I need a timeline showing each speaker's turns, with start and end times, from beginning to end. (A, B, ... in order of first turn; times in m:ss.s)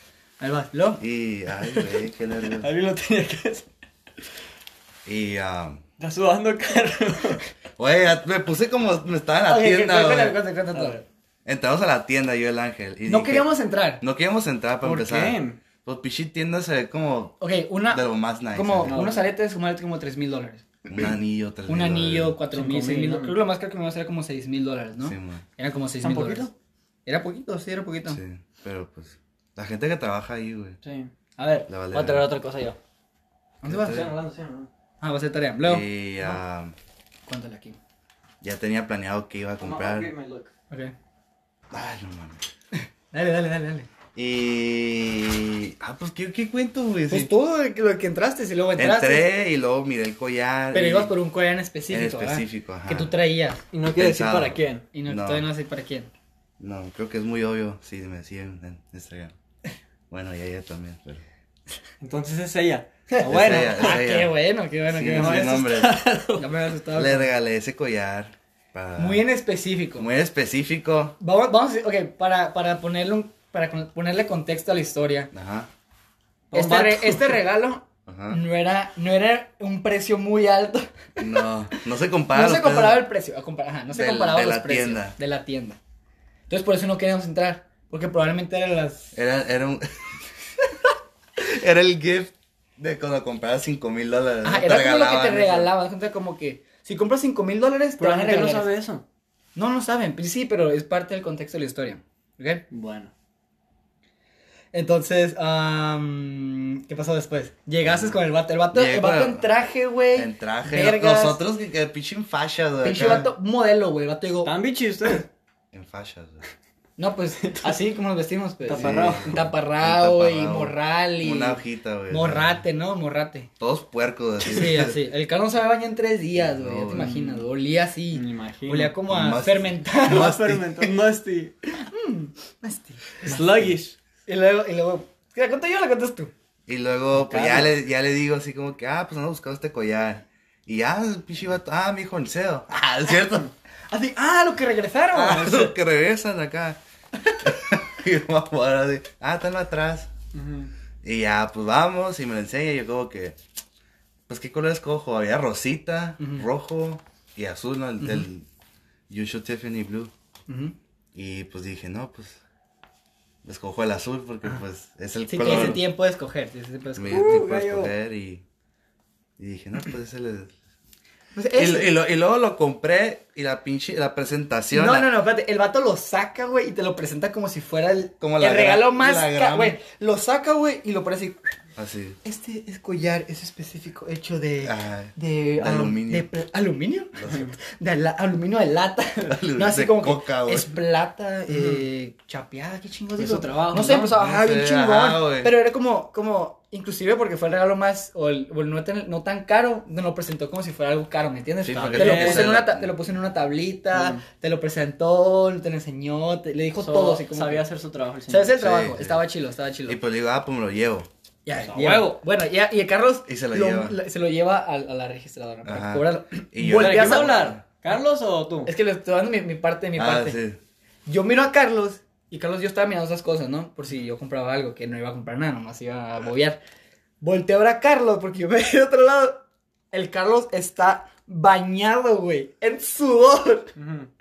0:00.4-0:01.0 A
0:01.0-0:02.7 B
0:02.6-0:03.7 C
0:05.1-0:05.8 B
0:06.0-0:07.4 C
0:07.8-0:10.4 B
0:09.5-0:11.0 A
0:10.7-0:11.0 C
0:11.4-0:13.5 B
0:13.1-0:14.0 A
0:14.0-0:17.4 B
0:14.8-0:15.6 C
0:17.4-0:20.7 A
0:17.9-0:19.0 B
0:18.8-0:19.3 C
0:20.9-0:22.4 B
0:21.7-0:26.5 A
0:22.5-0:23.4 C
0:25.0-0:25.4 B
0:26.0-0:26.5 C
0:27.1-0:28.2 A
0:28.1-0:30.8 B
0:30.8-0:32.8 C
0:31.7-0:32.2 B
0:33.6-0:34.1 A
0:33.7-0:34.1 B
0:33.7-0:34.7 C
0:35.0-0:36.4 A
0:35.6-0:36.7 B
0:37.3-0:37.8 A
0:38.4-0:40.1 B
0:39.6-0:40.5 C
0:41.7-0:42.4 B
0:42.8-0:43.9 A
0:44.2-0:47.3 B
0:47.1-0:49.3 A
0:48.8-0:51.1 B
0:50.7-0:53.6 A
0:51.9-0:53.1 B
0:53.7-0:54.9 C
0:53.9-0:55.5 B
0:54.9-0:56.1 A
0:56.6-0:59.4 B
1:00.1-1:01.2 B
1:02.0-1:04.0 C
1:03.1-1:05.8 A
1:03.2-1:04.4 B
1:04.9-1:06.0 B
1:05.1-1:06.5 C
1:06.4-1:07.3 A
1:06.9-1:09.3 B
1:09.0-1:10.1 A
1:10.0-1:11.2 B
1:11.2-1:15.3 A
1:15.3-1:15.7 B
1:16.5-1:17.4 C
1:16.5-1:25.8 A
1:18.1-1:18.4 B
1:21.2-1:23.1 B
1:23.9-1:25.2 B
1:26.5-1:29.2 A
1:29.1-1:30.2 B
1:31.4-1:35.7 B
1:34.4-1:38.7 A
1:38.0-1:39.0 C
1:39.6-1:42.6 A
1:42.7-1:43.1 C
1:44.7-1:51.4 A
1:47.8-1:48.2 B
1:48.7-1:49.5 B
1:50.1-1:53.3 B
1:52.8-1:54.5 A
1:54.4-1:55.3 C
1:55.7-1:56.4 B
1:57.0-2:03.5 A
1:57.4-1:57.8 C
1:58.7-1:59.4 C
1:58.7-2:02.6 B
2:03.6-2:05.0 B
2:04.4-2:10.4 A
2:06.4-2:07.4 B
2:08.1-2:09.0 C
2:09.1-2:10.9 B
2:10.0-2:11.6 C
2:11.8-2:13.4 A
2:13.2-2:14.0 C
2:13.4-2:13.7 B
2:14.3-2:16.3 A
2:16.7-2:23.5 B
2:17.1-2:17.7 C
2:23.9-2:25.7 A
2:25.1-2:26.8 B
2:27.4-2:30.1 B
2:30.3-2:30.7 C
2:31.0-2:33.4 B
2:34.3-2:38.5 B
2:36.2-2:36.5 A
2:39.1-2:40.1 B
2:40.5-2:40.8 A
2:41.1-2:42.4 B
2:43.4-2:45.8 B
2:45.3-2:47.5 A
2:45.5-2:45.7 C
2:47.0-2:48.4 B
2:47.1-2:47.9 C
2:49.4-2:50.5 B
2:51.4-2:51.9 A
2:51.6-2:55.1 B
2:54.7-3:01.4 A
2:58.2-2:59.8 B
3:01.8-3:02.2 B
3:02.2-3:27.6 A
3:04.6-3:06.3 B
3:07.2-3:07.5 B
3:07.3-3:07.5 C
3:09.3-3:10.8 B
3:11.5-3:11.8 C
3:13.2-3:14.1 C
3:14.1-3:15.5 B
3:21.6-3:22.9 B
3:21.7-3:22.6 C
3:23.9-3:24.2 C
3:26.8-3:28.5 C
3:28.3-3:30.0 A
3:28.6-3:29.2 B
3:29.9-3:31.1 B
3:31.5-3:37.5 A
3:31.6-3:32.1 C
3:33.3-3:34.0 B
3:35.6-3:37.6 B
3:36.7-3:38.7 C
3:38.7-3:40.4 A
3:40.0-3:40.6 B
3:41.1-3:46.6 A
3:47.2-3:53.7 A
3:53.8-3:54.1 C